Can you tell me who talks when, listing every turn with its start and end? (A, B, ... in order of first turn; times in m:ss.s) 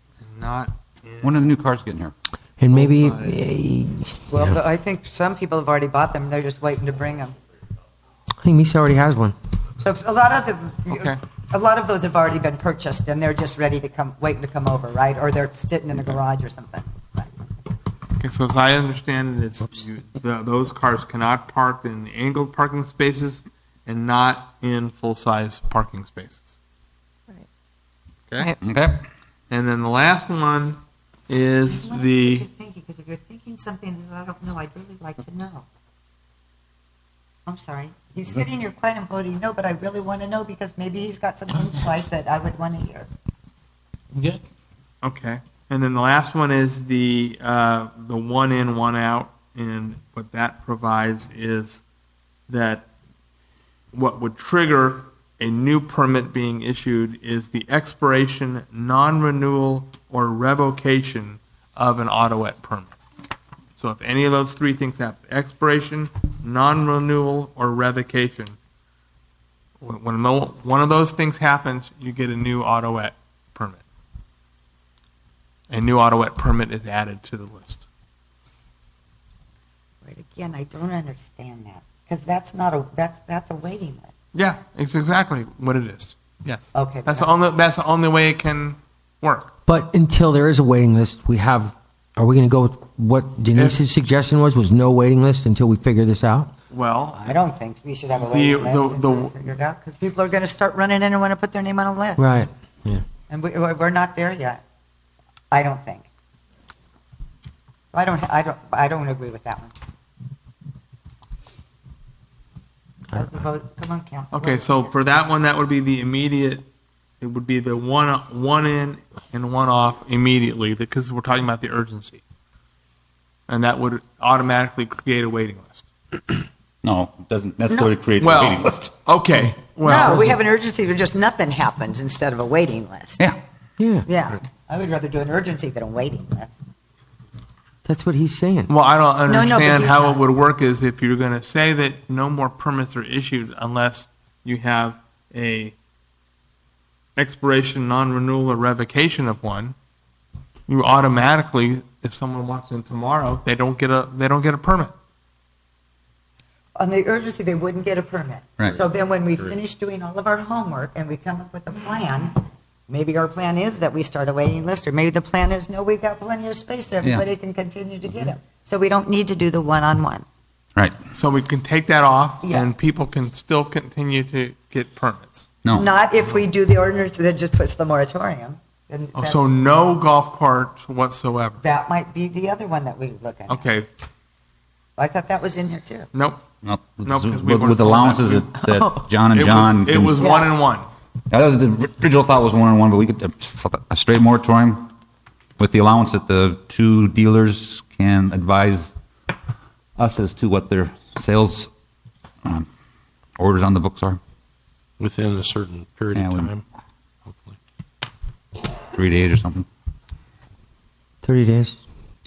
0:00.2-0:01.5 A
0:01.2-0:02.1 B
0:02.6-0:04.5 C
0:02.7-0:03.4 A
0:04.3-0:07.4 D
0:08.4-0:09.4 C
0:09.8-0:17.4 D
0:10.9-0:11.2 A
0:18.2-0:26.6 A
0:28.6-0:29.0 B
0:29.5-0:32.4 A
0:31.6-0:35.6 D
0:37.4-0:43.1 D
0:45.0-0:51.8 A
0:52.5-0:52.9 A
0:53.9-1:02.9 A
1:03.8-1:08.5 A
1:09.8-1:13.8 A
1:15.7-1:17.8 A
1:20.0-1:24.1 D
1:24.3-1:29.5 A
1:26.7-1:27.3 D
1:29.6-1:36.5 C
1:33.5-1:33.8 A
1:36.7-1:37.2 A
1:37.2-1:42.2 D
1:38.1-1:39.3 A
1:42.2-1:43.0 C
1:43.3-1:44.6 D
1:45.5-1:46.1 D
1:47.9-1:49.7 D
1:53.1-1:54.9 D
1:54.3-1:56.6 A
1:57.2-2:02.2 A
2:03.5-2:05.8 A
2:06.8-2:08.9 B
2:08.2-2:10.4 A
2:09.8-2:13.2 D
2:13.8-2:14.1 C
2:14.0-2:16.6 D
2:17.8-2:18.7 C
2:18.7-2:25.7 A
2:19.2-2:20.2 D
2:27.2-2:29.7 A
2:30.7-2:34.9 A
2:36.8-2:50.2 D
2:51.1-2:55.5 A
2:52.4-2:52.7 D
2:55.6-2:55.9 B
2:55.7-2:59.4 D
2:59.1-3:01.6 A
3:01.6-3:03.7 D
3:03.5-3:03.9 A
3:05.0-3:06.1 D
3:06.1-3:06.4 A
3:06.6-3:10.2 B
3:07.0-3:10.9 A
3:10.2-3:10.5 D
3:11.3-3:14.9 B
3:15.6-3:18.9 B
3:20.0-3:21.7 B
3:23.4-3:24.2 B
3:25.0-3:26.6 E
3:26.1-3:26.5 B
3:27.3-3:27.6 E
3:28.9-3:29.6 B
3:31.2-3:31.8 C